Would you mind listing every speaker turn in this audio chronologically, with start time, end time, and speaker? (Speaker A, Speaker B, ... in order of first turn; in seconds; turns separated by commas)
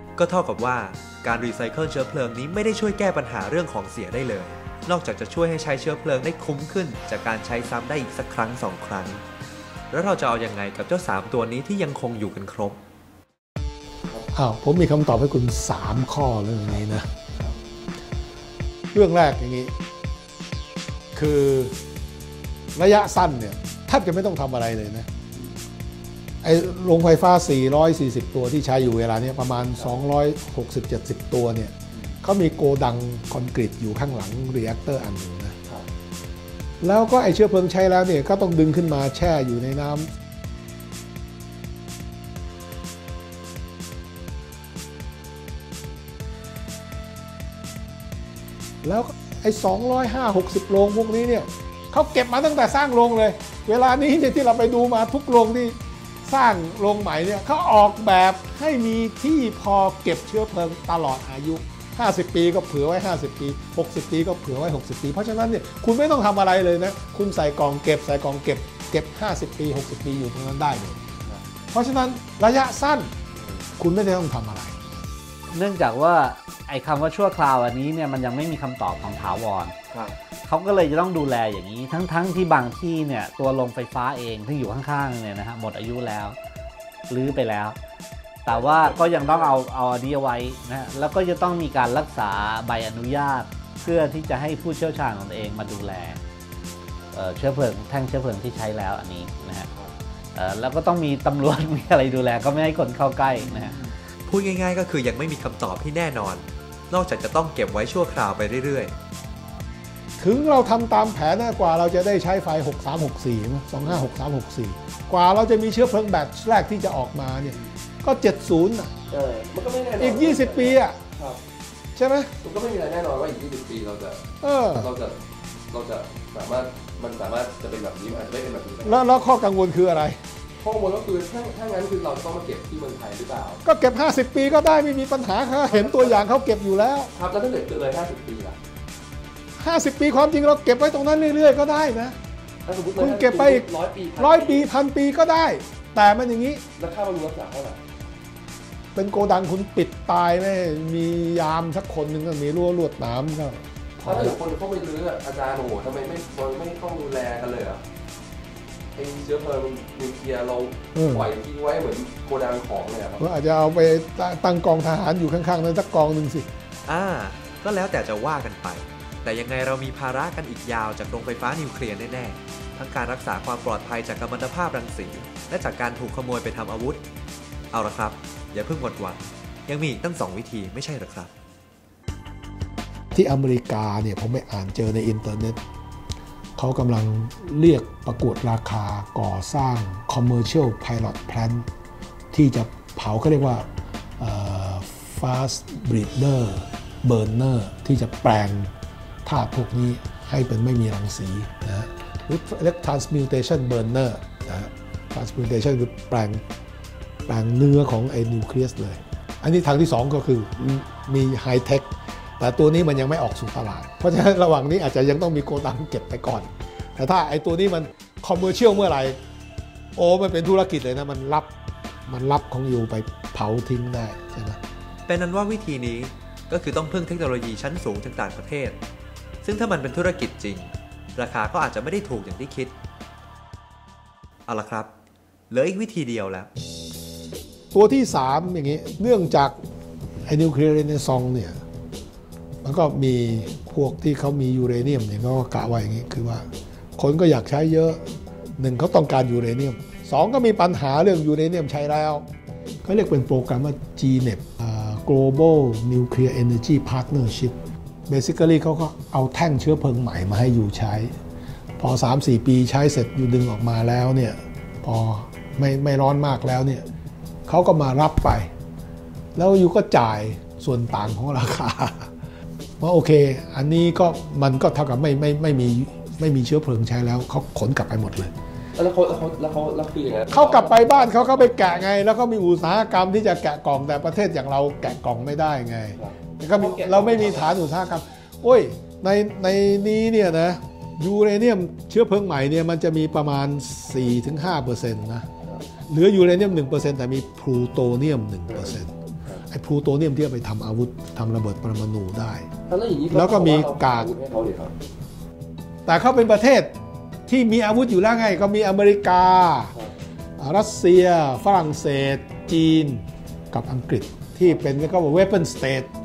Speaker A: 0.2-9.2, Speaker A: 9.9-12.8, Speaker B: 14.3-17.1, Speaker B: 18.9-19.7, Speaker B: 21.1-21.8, Speaker B: 22.8-25.1, Speaker B: 26.4-35.6, Speaker B: 36.8-40.1, Speaker B: 48.8-71.0, Speaker B: 71.7-73.1, Speaker C: 73.3-73.7, Speaker B: 73.8-74.8, Speaker D: 75.5-79.8, Speaker C: 79.9-80.2, Speaker D: 80.4-86.4, Speaker D: 87.1-87.8, Speaker D: 88.5-96.2, Speaker C: 88.5-89.6, Speaker D: 97.1-99.7, Speaker D: 100.3-103.8, Speaker C: 103.3-103.9, Speaker A: 104.3-108.9, Speaker B: 110.2-118.9, Speaker C: 113.8-114.1, Speaker C: 119.1-121.4, Speaker B: 120.0-121.0, Speaker B: 122.0-122.3, Speaker C: 122.4-124.2, Speaker B: 124.4-124.9, Speaker C: 124.8-125.2, Speaker C: 125.7-129.0, Speaker B: 128.9-130.2, Speaker C: 130.6-133.6, Speaker B: 133.7-137.1, Speaker C: 135.6-136.3, Speaker C: 137.2-138.6, Speaker B: 139.6-142.2, Speaker C: 142.7-144.7, Speaker B: 143.0-143.7, Speaker B: 144.2-146.6, Speaker C: 146.8-147.8, Speaker B: 148.9-154.4, Speaker C: 154.0-157.8, Speaker C: 158.9-163.2, Speaker B: 160.9-161.3, Speaker B: 163.2-166.5, Speaker A: 166.9-177.0, Speaker A: 177.7-181.3, Speaker B: 183.1-185.6, Speaker B: 186.6-191.7, Speaker B: 192.3-193.7, Speaker B: 194.2-198.7, Speaker B: 199.2-206.4, Speaker B: 207.3-219.2, Speaker B: 220.0-221.5, Speaker B: 222.1-224.6, Speaker A: 225.1-228.8, Speaker A: 229.4-232.8, Speaker A: 234.5-234.9, Speaker A: 235.5-236.5, Speaker B: 237.7-239.6, Speaker B: 240.3-241.6, Speaker B: 242.6-246.5, Speaker B: 247.0-252.3, Speaker B: 252.8-257.6, Speaker B: 258.1-261.1, Speaker B: 261.8-266.9, Speaker B: 267.5-268.5, Speaker B: 269.4-272.1, Speaker B: 272.8-278.3, Speaker C: 278.8-281.9, Speaker B: 280.3-295.3, Speaker C: 286.0-287.6, Speaker B: 295.9-298.9, Speaker C: 298.5-299.4, Speaker B: 299.5-302.5, Speaker C: 302.7-304.8, Speaker B: 303.1-304.1, Speaker B: 305.9-306.7, Speaker B: 307.3-309.7, Speaker B: 310.4-315.9